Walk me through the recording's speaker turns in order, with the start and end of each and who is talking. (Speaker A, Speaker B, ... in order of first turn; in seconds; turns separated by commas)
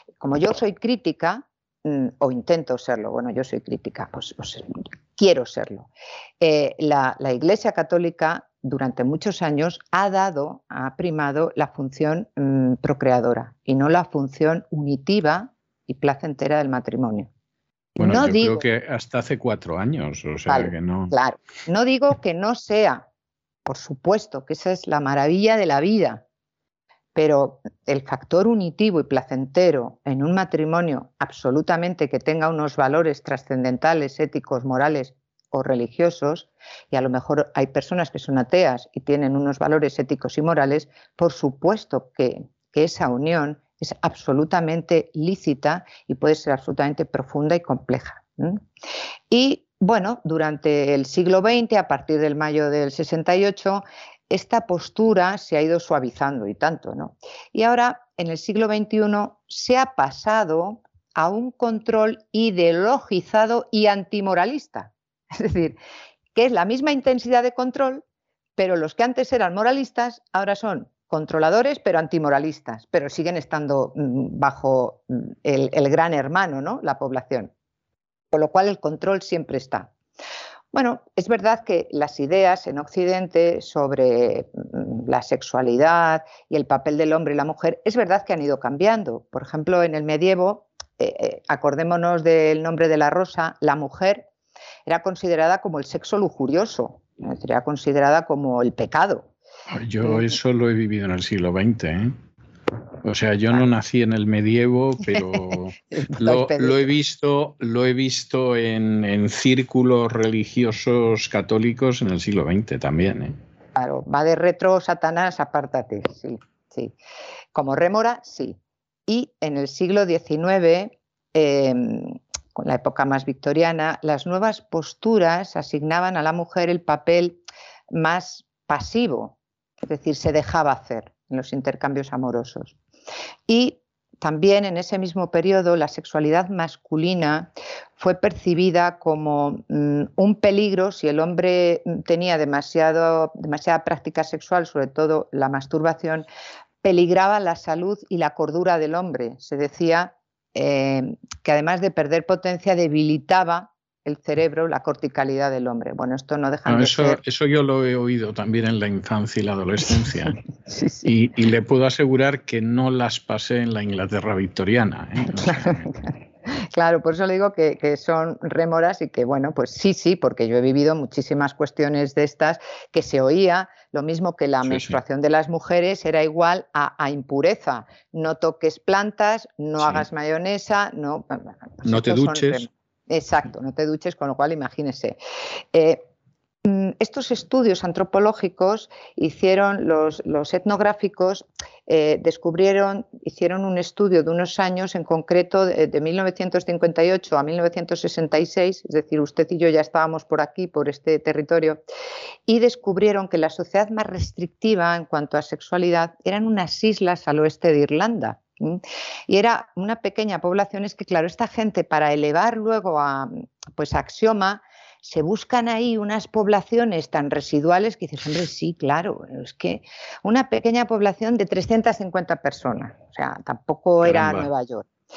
Speaker A: 0.2-5.9, Speaker A: 6.4-17.3, Speaker B: 18.0-21.1, Speaker A: 18.0-18.6, Speaker A: 20.5-23.1, Speaker A: 23.6-26.2, Speaker A: 27.1-48.6, Speaker A: 49.3-65.8, Speaker A: 66.3-68.0, Speaker A: 68.6-77.5, Speaker A: 78.3-79.9, Speaker A: 80.7-94.3, Speaker A: 94.9-99.3, Speaker B: 99.7-102.2, Speaker B: 103.0-113.4, Speaker A: 105.9-106.9, Speaker A: 113.8-117.0, Speaker A: 117.5-127.4, Speaker A: 127.9-132.8, Speaker A: 133.5-146.3, Speaker A: 146.8-157.2, Speaker B: 156.7-160.4, Speaker A: 160.7-161.1, Speaker B: 161.1-165.9, Speaker A: 165.4-185.2, Speaker B: 174.7-175.0, Speaker B: 179.8-180.1, Speaker B: 181.8-182.7, Speaker A: 185.7-186.0, Speaker A: 186.6-201.8, Speaker A: 202.5-224.9, Speaker B: 224.0-224.5